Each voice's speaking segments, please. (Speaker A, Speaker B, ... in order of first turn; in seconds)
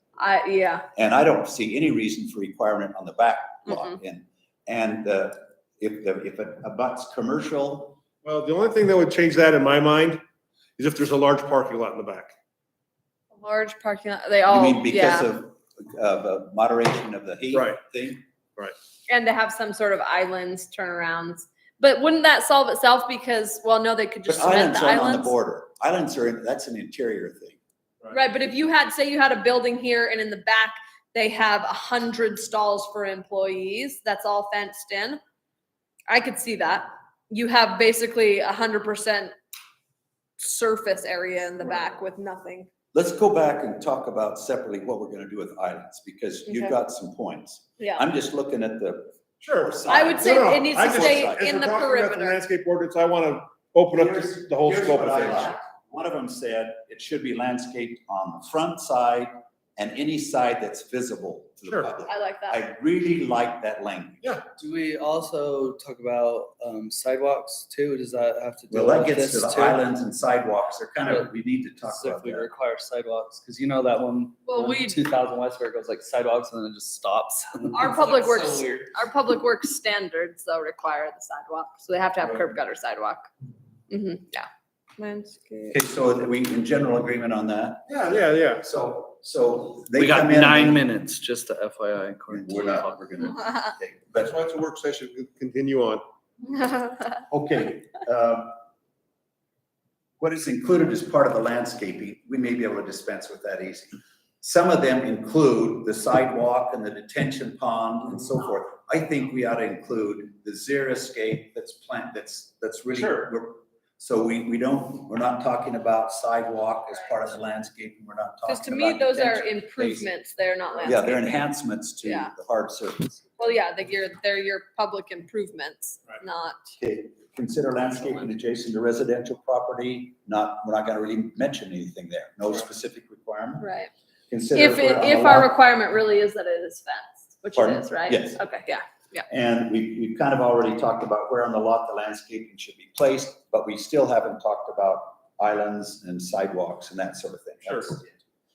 Speaker A: 0.2-0.8, 3.7-3.9, 13.3-15.3, 19.1-25.3, 28.1-35.2, 36.1-39.3, 40.4-42.7, 46.5-46.8, 47.8-48.0, 49.9-52.4, 62.1-62.6, 74.5-75.0, 77.7-83.3, 83.9-85.8, 96.5-97.0, 118.5-121.4, 122.0-122.3, 123.4-126.6, 133.6-133.9, 134.5-139.2
Speaker B: 0.9-8.0, 14.5-18.2, 24.2-27.6, 42.9-51.4, 53.9-64.2, 68.7-72.5, 85.7-90.8, 92.3-94.3, 97.3-98.5, 100.2-120.1, 120.8-123.4, 126.8-133.7, 134.3-135.5, 137.5-138.4, 139.3-148.2
Speaker C: 8.2-10.2, 10.8-12.3, 17.5-17.8, 49.4-55.5, 61.6-61.9, 87.9-88.7, 94.2-96.0, 113.0-113.3, 147.7-147.9
Speaker D: 64.6-69.8, 71.8-78.6, 89.9-93.0